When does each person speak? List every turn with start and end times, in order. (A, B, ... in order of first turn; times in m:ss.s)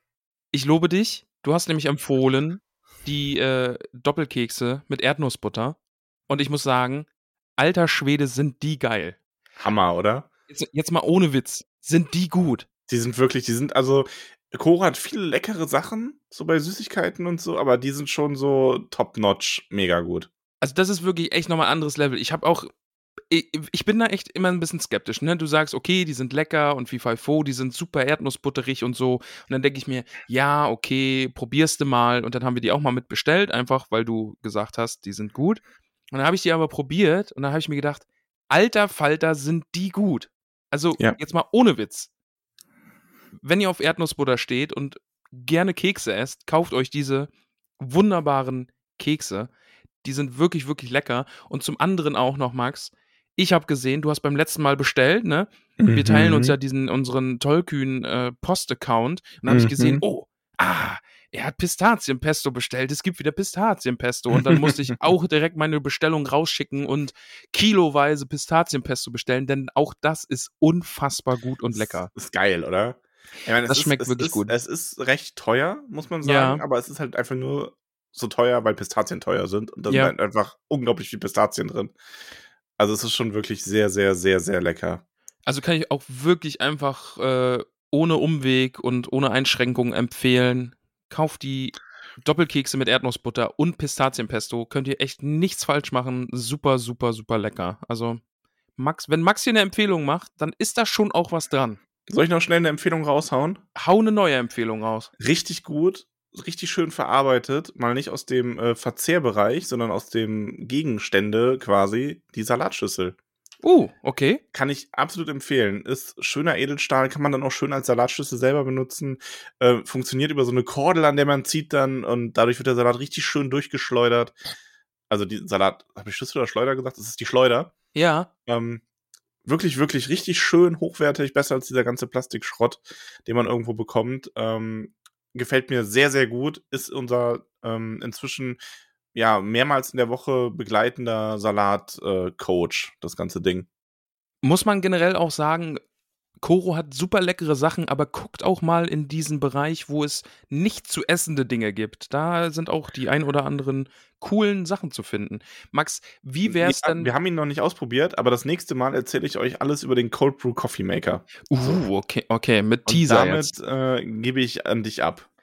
0:00.5-0:05.8 A
0:06.3-0:09.2 A
0:09.6-0:10.3 B
0:10.5-0:12.7 A
0:12.9-0:20.3 B
0:20.6-0:22.7 A
0:23.3-0:42.1 A
0:43.4-0:49.5 A
0:50.0-1:12.1 A
0:55.8-0:56.6 B
0:59.5-1:00.0 B
1:04.5-1:04.7 B
1:11.7-1:21.9 B
1:13.7-1:14.5 A
1:16.2-1:16.6 A
1:19.9-1:20.2 A
1:22.8-1:25.0 B
1:25.4-1:38.2 A
1:38.8-1:41.8 A
1:42.1-1:43.6 B
1:43.8-1:45.1 A
1:45.2-1:53.2 B
1:53.6-1:54.4 A
1:54.5-2:04.4 B
2:05.1-2:07.7 B
2:07.9-2:08.3 A
2:08.5-2:08.8 B
2:09.4-2:18.6 B
2:19.1-2:23.7 B
2:24.4-2:25.8 A
2:26.4-2:37.1 A
2:36.5-2:41.3 B
2:41.5-2:43.5 A
2:42.9-2:45.3 B